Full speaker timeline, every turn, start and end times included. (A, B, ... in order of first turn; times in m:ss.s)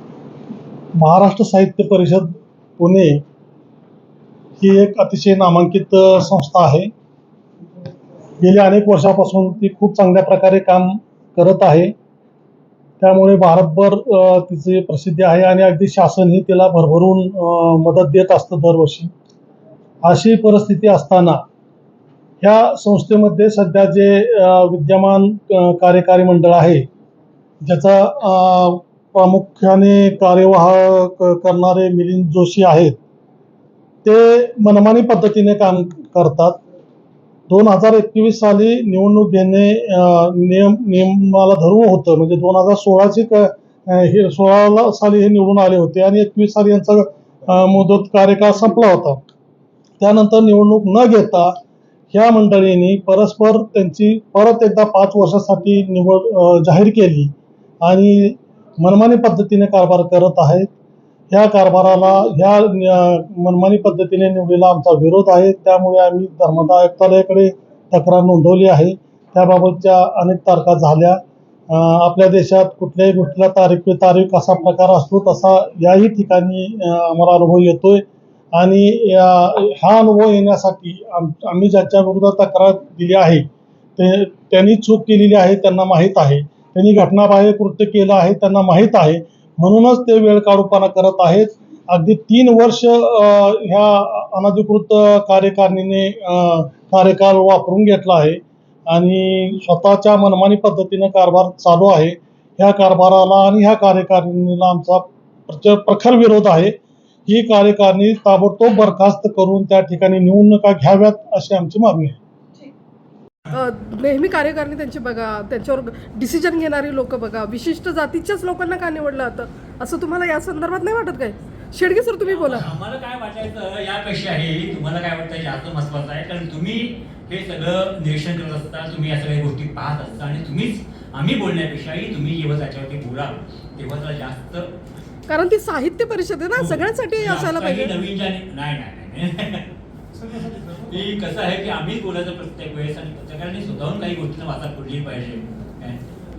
0:01.0-0:03.2 A
0:04.6-0:06.9 A
0:08.4-0:11.9 A
0:13.0-0:19.1 A
0:20.0-0:21.4 A
0:22.4-0:26.8 A
0:27.6-0:33.0 A
0:34.0-0:36.6 A
0:37.5-0:49.2 A
0:50.0-0:51.6 A
0:52.1-0:57.3 A
0:57.8-1:00.7 A
1:01.3-1:18.0 A
1:18.6-1:46.7 A
1:47.3-1:52.2 A
1:53.5-2:02.7 B
2:02.2-2:14.7 C
2:15.3-2:17.9 B
2:16.5-2:19.7 C
2:20.1-2:21.2 A
2:20.9-2:26.0 C